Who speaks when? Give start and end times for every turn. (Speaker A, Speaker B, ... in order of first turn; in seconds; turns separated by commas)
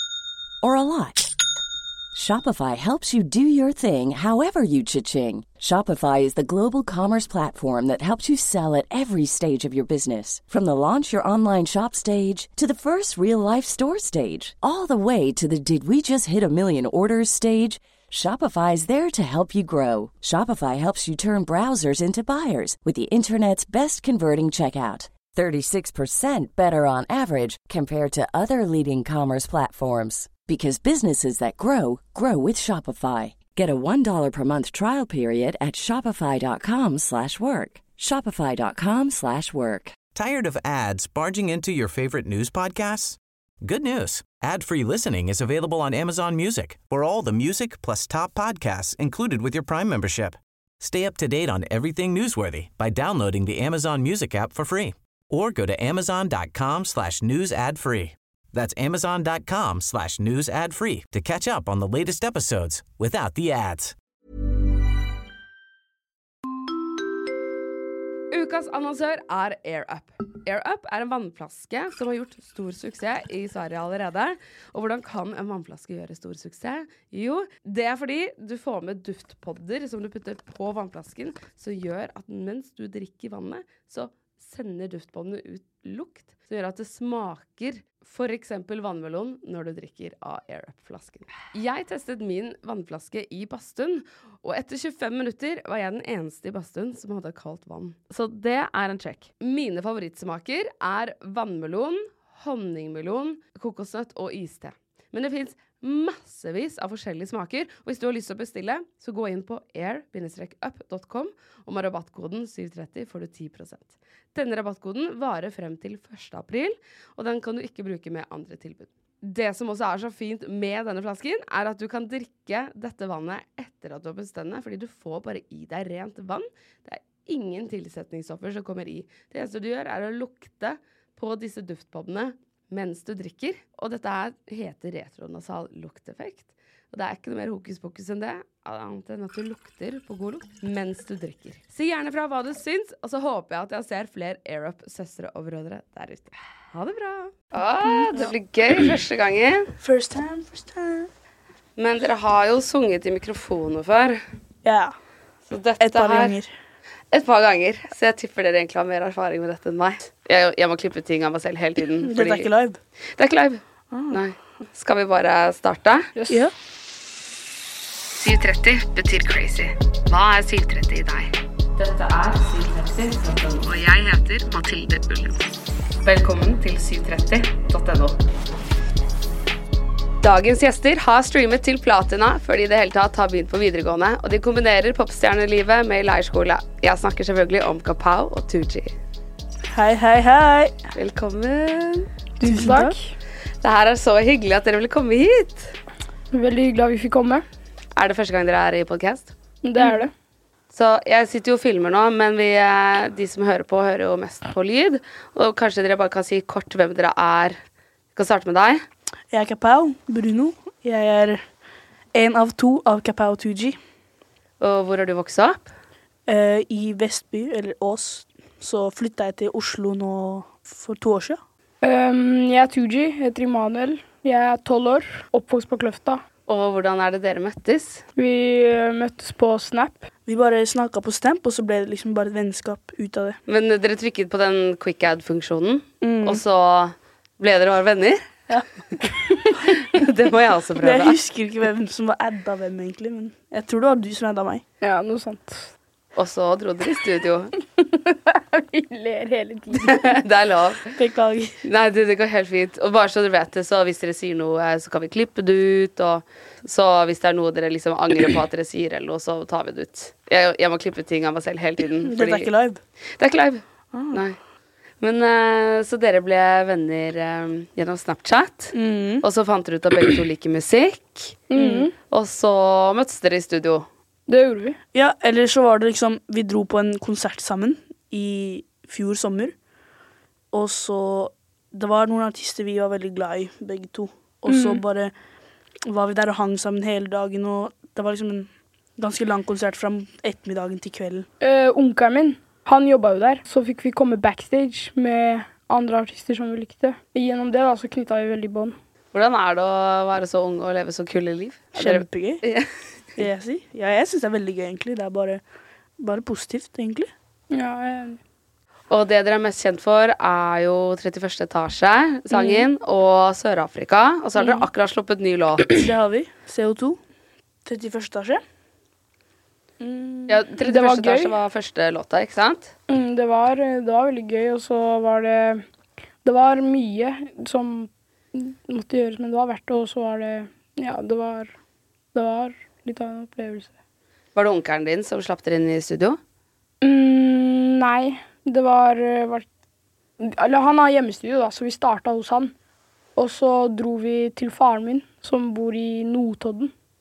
Speaker A: 0.6-1.3, Speaker A: 2.1-40.0, Speaker B: 40.1-63.9, Speaker C: 68.3-149.7, Speaker D: 147.8-148.3, Speaker D: 149.8-151.1, Speaker C: 151.8-154.2, Speaker D: 154.6-154.9, Speaker C: 155.5-156.3, Speaker D: 155.8-156.5, Speaker C: 157.1-162.5, Speaker D: 162.0-162.8, Speaker C: 163.2-166.1, Speaker D: 163.9-164.2, Speaker E: 166.2-166.4, Speaker C: 168.2-175.4, Speaker C: 176.0-178.2, Speaker C: 180.2-188.9, Speaker D: 189.7-190.8, Speaker C: 190.9-192.1, Speaker E: 192.4-193.1, Speaker D: 192.4-193.0, Speaker C: 193.6-195.7, Speaker E: 196.3-197.4, Speaker C: 197.9-199.3, Speaker E: 199.6-200.1, Speaker C: 200.7-207.6, Speaker C: 208.1-208.8, Speaker D: 209.3-211.4, Speaker D: 212.1-213.8, Speaker C: 214.6-215.7, Speaker D: 216.2-221.4, Speaker E: 221.8-226.2, Speaker C: 226.5-228.0, Speaker E: 228.2-230.1, Speaker D: 230.2-233.4, Speaker C: 233.5-238.3, Speaker D: 236.0-236.4, Speaker E: 239.3-239.6, Speaker C: 239.6-241.2, Speaker D: 240.8-244.6, Speaker E: 244.8-245.7, Speaker C: 246.1-247.5, Speaker E: 247.6-250.2, Speaker C: 249.8-250.9, Speaker D: 250.9-251.6, Speaker C: 251.6-262.5, Speaker D: 262.0-262.8, Speaker C: 263.2-264.4, Speaker D: 263.9-264.2, Speaker C: 265.0-271.4, Speaker D: 268.7-269.2, Speaker E: 271.5-271.9, Speaker D: 271.5-271.9, Speaker C: 272.1-273.9, Speaker E: 274.3-274.8, Speaker D: 274.9-279.5, Speaker D: 280.5-285.1, Speaker E: 284.5-284.8, Speaker D: 285.9-291.3, Speaker E: 291.4-298.8, Speaker C: 299.1-302.7, Speaker D: 301.7-302.4, Speaker D: 303.2-305.4, Speaker D: 306.0-307.1, Speaker E: 307.5-308.2, Speaker C: 308.9-315.8, Speaker E: 312.3-312.7, Speaker D: 315.7-317.0, Speaker D: 317.6-318.4, Speaker D: 319.8-320.4, Speaker C: 320.3-322.7, Speaker E: 320.6-321.3, Speaker E: 322.9-325.6, Speaker E: 326.2-331.5, Speaker E: 332.1-333.7, Speaker C: 334.3-336.2, Speaker E: 336.8-339.4, Speaker E: 340.2-342.5, Speaker E: 343.1-346.7